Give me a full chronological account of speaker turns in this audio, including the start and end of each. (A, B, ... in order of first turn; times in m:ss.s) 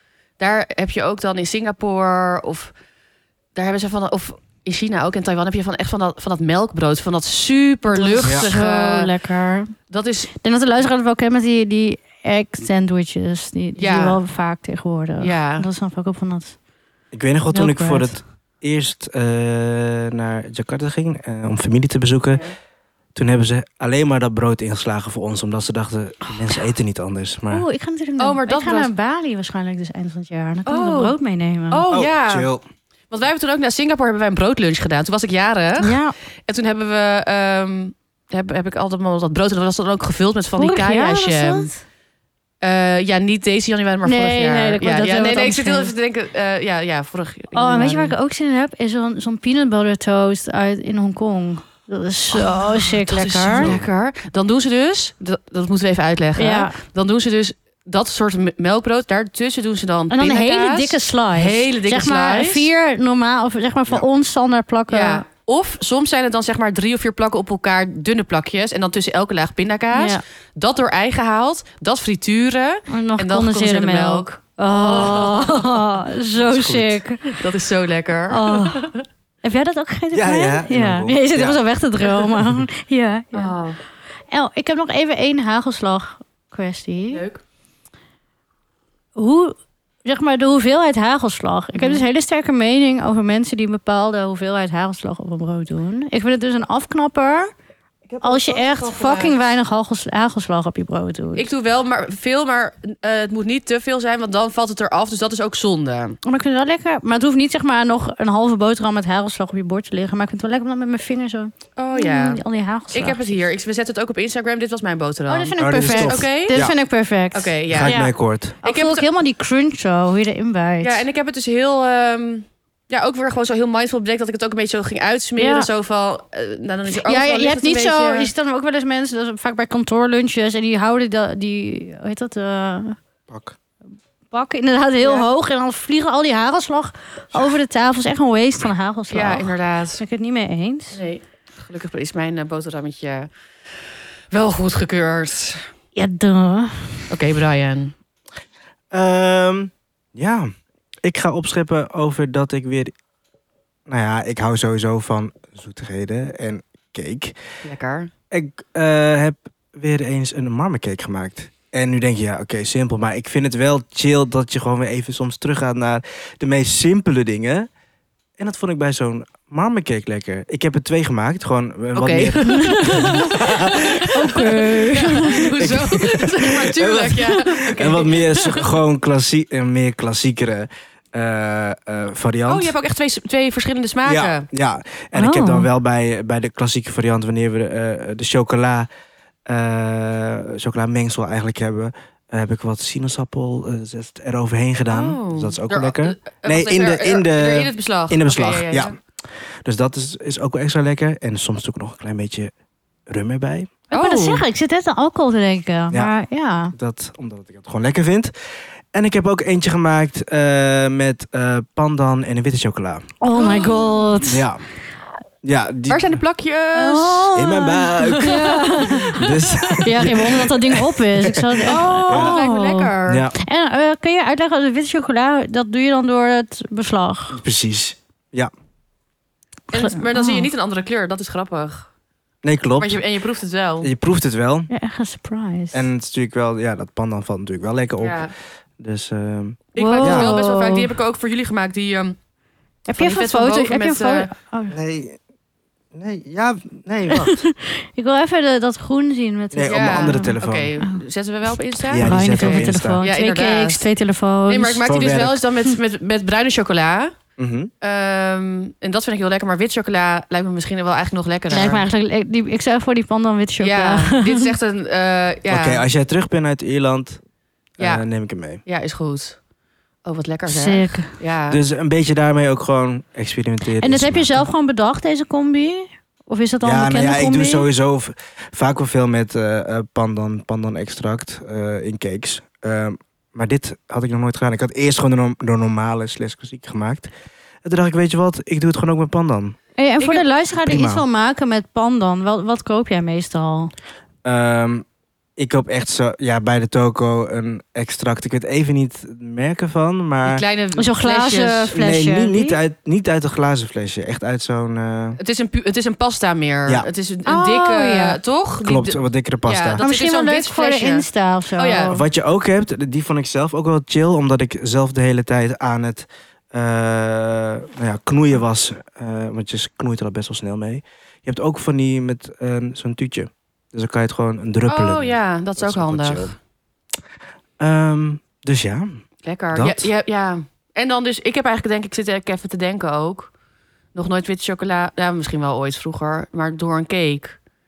0:00.4-0:02.7 A
0:03.6-0:09.1 A
0:07.9-0:09.7 B
0:09.9-0:10.3 A
0:10.4-0:16.6 B
0:13.8-0:14.2 A
0:15.2-0:15.7 A
0:17.1-0:22.4 C
0:17.5-0:18.2 B
0:23.2-0:27.6 C
0:27.5-0:31.9 B
0:28.2-0:28.9 A
0:30.7-0:31.2 A
0:31.7-0:32.5 A
0:31.9-0:32.6 C
0:33.1-0:41.7 A
0:35.8-0:36.2 B
0:40.6-0:41.8 B
0:42.6-0:48.1 A
0:44.0-0:45.9 B
0:47.5-0:53.8 B
0:52.3-1:02.7 A
0:53.5-0:53.8 C
0:56.4-0:56.8 B
1:00.1-1:05.2 B
1:04.9-1:15.8 A
1:09.9-1:10.2 B
1:12.9-1:17.4 B
1:16.4-1:17.0 C
1:17.3-1:19.0 A
1:18.3-1:23.6 B
1:20.1-1:21.6 C
1:22.2-1:22.6 C
1:23.3-1:23.8 A
1:24.3-1:27.2 B
1:27.1-1:27.4 A
1:29.2-1:37.5 B
1:31.8-1:32.0 A
1:38.1-1:39.5 A
1:38.2-1:41.5 B
1:41.4-1:46.2 A
1:46.2-1:53.2 B
1:51.8-1:52.4 A
1:52.9-1:56.6 A
1:55.3-2:01.0 B
1:55.6-1:56.8 C
1:57.3-1:58.0 A
1:57.7-1:58.6 C
1:58.6-1:59.1 A
2:00.8-2:08.3 A
2:05.4-2:05.7 B
2:07.0-2:13.0 B
2:13.3-2:13.6 C
2:14.3-2:21.0 B
2:15.0-2:15.3 A
2:19.1-2:20.0 A
2:20.9-2:23.3 A
2:24.3-2:25.7 A
2:26.0-2:27.1 B
2:27.1-2:27.9 A
2:28.9-2:30.5 C
2:31.0-2:32.9 C
2:33.9-2:37.4 C
2:37.6-2:38.1 A
2:38.3-2:47.7 C
2:48.4-2:53.8 C
2:52.0-2:58.7 A
2:52.4-2:55.5 B
2:55.6-3:02.7 C
3:02.5-3:04.5 A
3:04.0-3:08.9 C
3:05.1-3:05.7 B
3:09.5-3:19.0 C
3:14.9-3:19.0 A
3:19.6-3:22.5 C
3:23.1-3:23.7 C
3:23.9-3:26.7 B
3:23.9-3:24.4 A
3:26.7-3:28.3 C
3:28.9-3:33.1 C
3:33.2-3:34.5 B
3:33.3-3:34.2 A
3:34.2-3:34.6 C
3:35.4-3:36.2 C
3:35.9-3:37.3 A
3:36.8-3:47.4 B
3:37.3-3:42.4 C
3:38.0-3:40.2 A
3:41.6-3:43.2 A
3:43.1-3:43.4 C
3:47.3-3:48.5 C
3:49.7-3:51.9 A
3:49.8-3:50.5 B
3:52.4-3:53.0 C
3:52.8-3:53.9 A
3:53.8-3:54.7 C
3:54.7-3:55.9 B
3:55.7-4:00.3 C
3:58.0-3:58.3 A
3:59.7-4:02.2 A
3:59.8-4:00.9 B
4:02.9-4:04.8 B
4:03.0-4:04.3 A
4:04.7-4:05.2 C
4:05.9-4:07.4 C
4:07.1-4:11.0 B
4:09.5-4:10.7 C
4:09.7-4:13.8 A
4:11.9-4:13.0 C
4:11.9-4:14.8 B
4:14.5-4:17.2 A
4:14.8-4:15.4 C
4:17.4-4:17.7 C
4:17.8-4:21.8 A
4:21.5-4:24.5 B
4:23.6-4:25.8 A
4:25.5-4:27.2 C
4:27.8-4:28.6 C
4:27.8-4:28.0 A
4:28.6-4:29.4 A
4:30.0-4:31.6 A
4:30.5-4:31.1 B
4:31.5-4:34.5 C
4:33.8-4:37.7 B
4:36.6-4:47.1 C
4:47.6-4:49.6 C
4:49.8-4:53.7 B
4:50.0-4:50.2 A
4:50.6-4:51.0 C
4:54.2-4:54.8 C
4:55.4-5:00.4 C
5:00.2-5:01.7 A
5:00.8-5:02.6 B
5:01.7-5:05.2 C
5:05.2-5:11.0 A
5:07.2-5:08.2 B
5:08.6-5:09.8 C
5:09.8-5:12.0 B
5:11.6-5:12.0 A
5:11.9-5:26.3 C
5:24.7-5:26.4 A
5:27.6-5:29.0 C
5:29.2-5:33.3 A
5:29.5-5:29.9 C
5:33.9-5:37.4 A